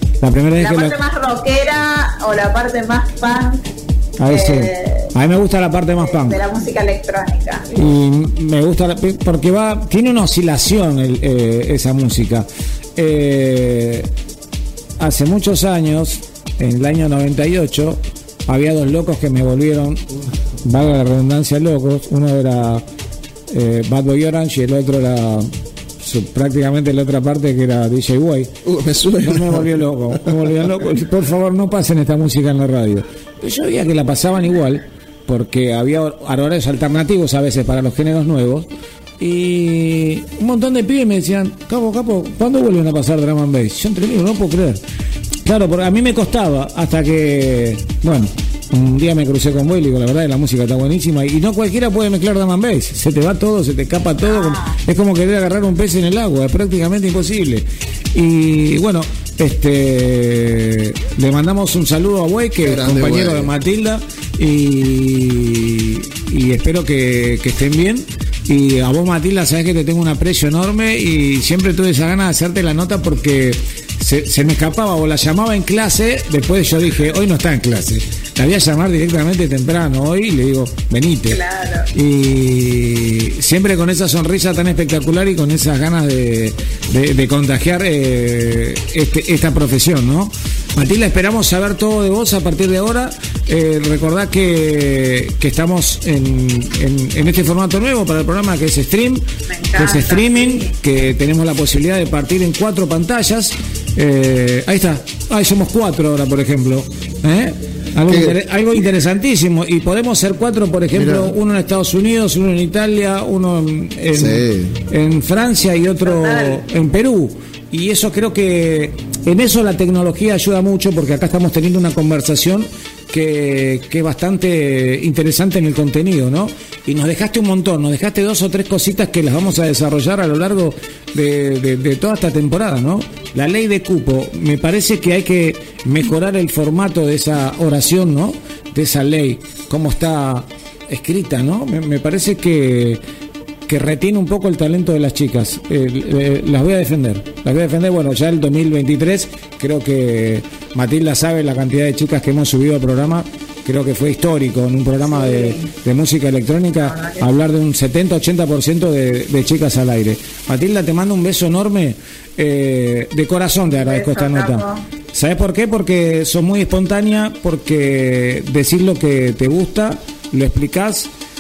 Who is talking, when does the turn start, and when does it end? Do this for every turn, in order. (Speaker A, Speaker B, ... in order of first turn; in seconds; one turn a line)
Speaker A: 0.2-1.0
Speaker B: 0.6-3.6
Speaker A: 4.2-6.4
Speaker B: 4.3-5.1
Speaker B: 6.0-7.7
Speaker A: 7.7-14.1
Speaker A: 15.0-20.1
Speaker A: 20.6-22.8
Speaker A: 23.5-25.5
Speaker A: 26.0-28.5
Speaker C: 28.7-29.6
Speaker A: 29.2-44.8
Speaker A: 45.4-143.0
Speaker B: 54.3-54.8
Speaker C: 62.6-63.5
Speaker B: 81.3-81.9
Speaker B: 99.5-100.6
Speaker C: 108.1-108.4
Speaker C: 110.9-111.3
Speaker C: 114.1-114.7
Speaker B: 116.0-116.6
Speaker A: 143.7-171.1
Speaker B: 155.1-155.7
Speaker B: 156.8-157.2
Speaker B: 163.8-164.8